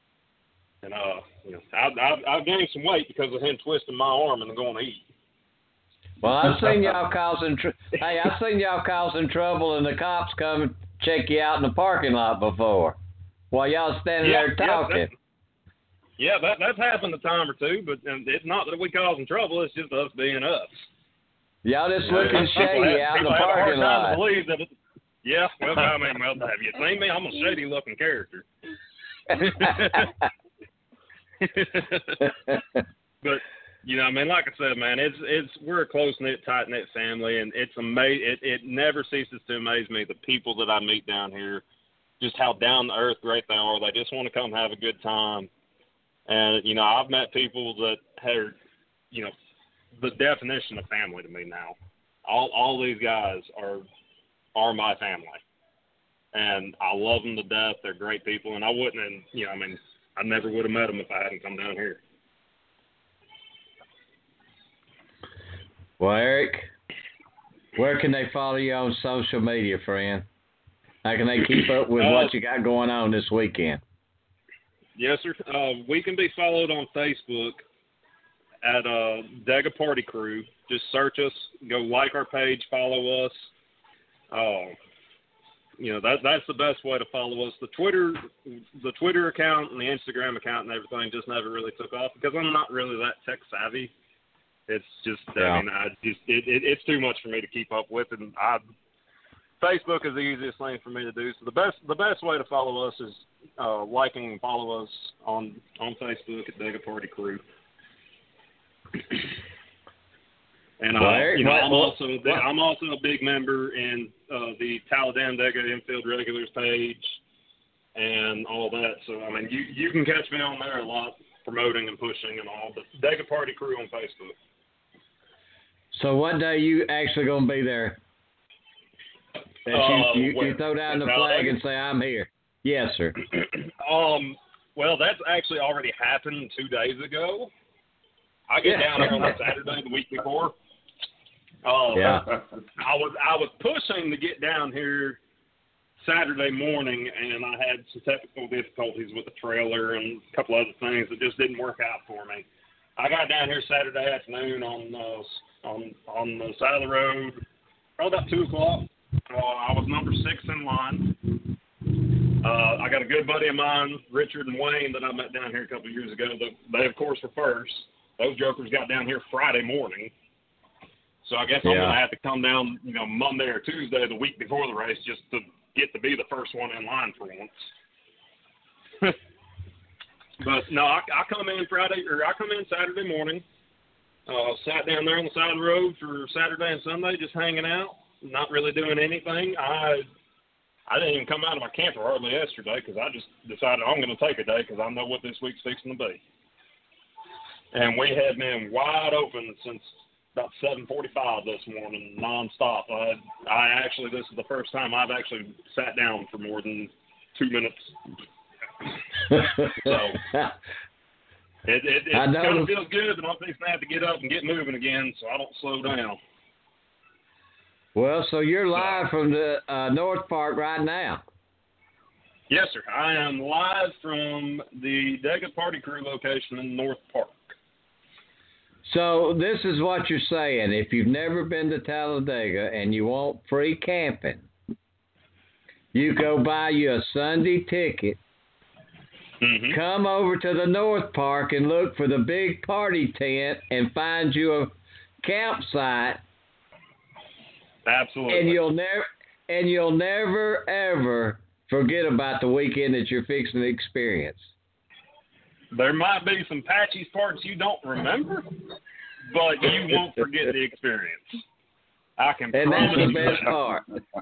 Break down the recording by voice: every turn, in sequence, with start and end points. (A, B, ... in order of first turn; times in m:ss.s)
0:00.8-0:05.0 A
0:06.2-0:13.0 B
0:06.4-0:06.9 A
0:13.5-0:15.1 B
0:14.2-0:15.1 A
0:16.2-0:20.9 A
0:21.6-0:24.2 B
0:22.0-0:24.7 A
0:25.2-0:28.5 A
0:29.3-0:30.1 A
0:31.4-0:32.3 A
0:33.2-0:41.6 A
0:42.2-0:45.5 A
0:46.3-0:48.6 A
0:50.0-0:53.9 A
0:54.6-0:55.4 A
0:56.3-1:02.0 A
1:06.0-1:06.7 B
1:07.8-1:10.3 B
1:11.0-1:13.8 B
1:11.9-1:12.3 A
1:15.0-1:17.6 A
1:18.6-1:23.5 A
1:24.3-1:24.8 A
1:25.8-1:33.9 A
1:34.7-1:38.6 A
1:35.4-1:35.6 B
1:39.6-1:47.4 A
1:50.8-1:57.2 A
1:51.0-1:52.4 B
1:58.0-2:04.4 A
2:05.9-2:08.0 B
2:09.7-2:11.6 A
2:09.7-2:13.2 B
2:13.8-2:17.5 A
2:18.5-2:20.5 A
2:18.6-2:19.3 B
2:21.6-2:25.2 A
2:21.9-2:22.3 B
2:26.0-2:32.4 A
2:33.0-2:37.4 A
2:38.0-2:41.2 A
2:42.4-2:50.1 A
2:51.2-2:57.5 A
2:51.6-2:52.0 B
3:00.4-3:03.4 A
3:04.3-3:10.1 A
3:10.9-3:16.2 A
3:17.7-3:28.0 A
3:29.3-3:30.2 A
3:29.3-3:30.5 B
3:31.7-3:36.2 A
3:32.1-3:32.7 B
3:38.0-3:41.2 B
3:38.8-3:39.0 A
3:42.5-3:47.6 A
3:48.9-3:54.5 B
3:55.9-3:58.2 B
3:59.4-3:59.8 A
3:59.7-4:06.2 B
4:07.8-4:08.6 A
4:08.3-4:14.5 B
4:15.7-4:18.6 A
4:19.3-4:21.4 A
4:22.2-4:23.5 A
4:22.5-4:23.9 B